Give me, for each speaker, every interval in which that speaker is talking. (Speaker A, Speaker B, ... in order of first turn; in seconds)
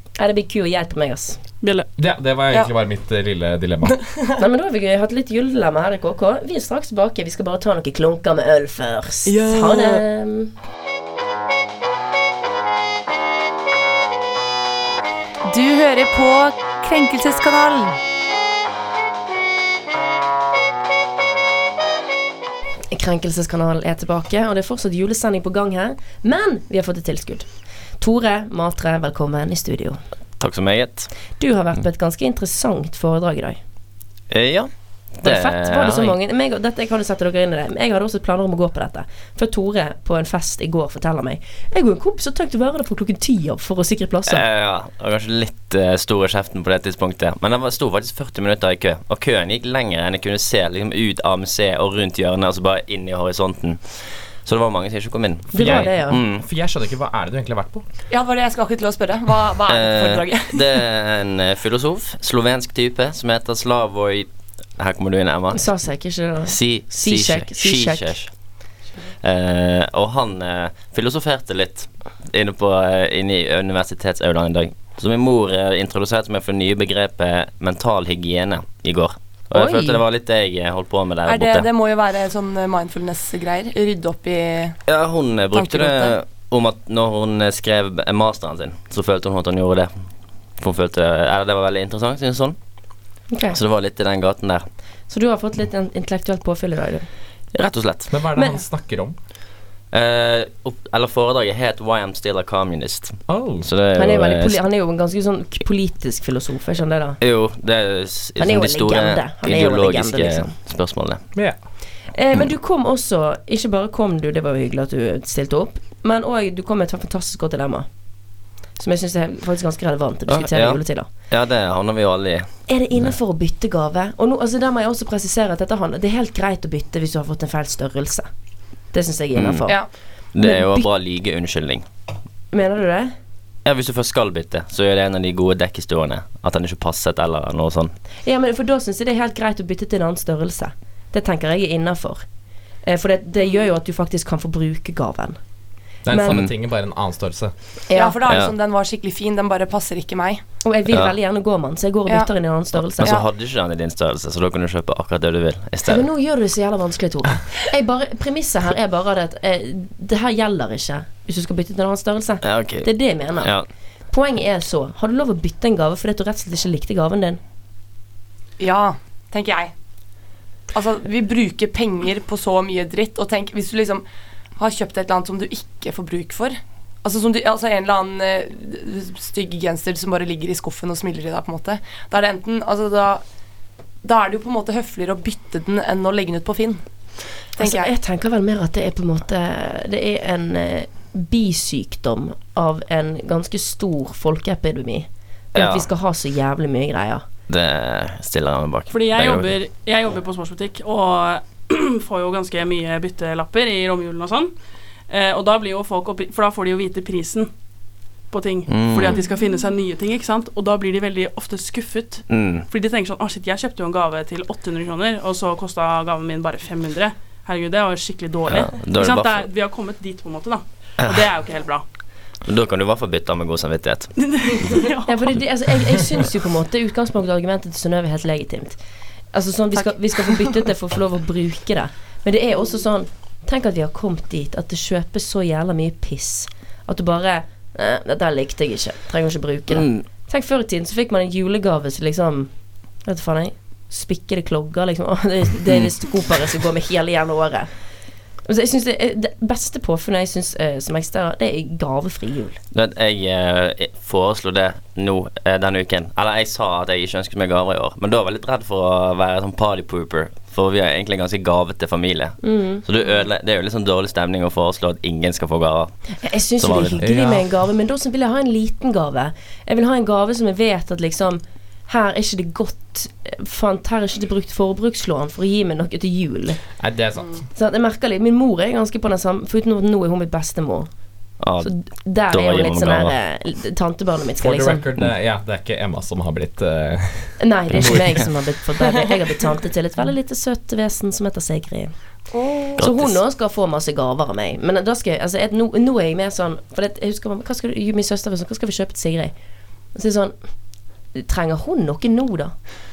Speaker A: 0.2-1.4, 4.4-10.5, 22.9-27.5, 28.0-30.0, 31.4-33.6, 35.2-44.5, 55.5-56.2, 65.5-68.2, 79.5-80.0, 93.3-93.6, 95.1-97.1, 104.0-107.2, 108.4-110.5, 112.1-117.9, 118.8-121.1, 122.7-128.3, 128.9-130.9, 132.5-133.1, 138.2-142.2, 142.9-145.4, 146.1-146.4, 147.9-148.2, 150.6-153.2, 155.9-163.5, 164.1-167.4, 187.6-197.2, 225.1-228.8, 229.3-242.5, 243.1-247.7, 248.5-252.6, 262.4-262.8, 266.2-276.6, 277.6-280.9, 281.6-284.9, 287.4-291.9, 292.8-299.3, 299.9-300.4, 301.1-302.5
Speaker B: 1.6-1.9, 198.9-204.5, 205.1-207.5, 208.3-221.8, 224.2-225.3
Speaker C: 2.0-4.0, 55.6-57.9, 98.1-99.1, 103.3-103.7, 146.1-147.5, 267.0-267.5, 276.8-277.4, 284.4-288.2
Speaker D: 3.9-4.4, 9.3-10.0, 15.5-18.0, 58.1-60.8, 81.3-84.8, 85.5-86.2, 147.9-150.4, 168.6-169.7, 170.7-174.0, 174.6-183.2, 184.0-186.8, 187.6-187.9, 292.3-292.8
Speaker E: 30.4-31.1, 34.3-36.2, 44.3-56.4, 59.7-65.7, 66.4-68.3, 69.2-81.7, 84.9-90.0, 90.6-92.6, 93.5-94.7, 97.5-98.2, 99.9-104.6, 107.2-111.2, 120.3-122.5, 129.3-129.7, 130.3-131.8, 133.7-137.9, 148.3-148.6, 150.9-151.2, 152.9-156.1, 162.4-163.7, 195.6-195.9, 197.5-199.6, 208.7-209.2, 212.3-212.7, 218.5-219.5, 221.0-221.3, 222.5-224.7, 239.7-240.1, 252.7-265.9, 266.6-267.0, 281.4-281.7, 282.3-283.2, 292.8-293.2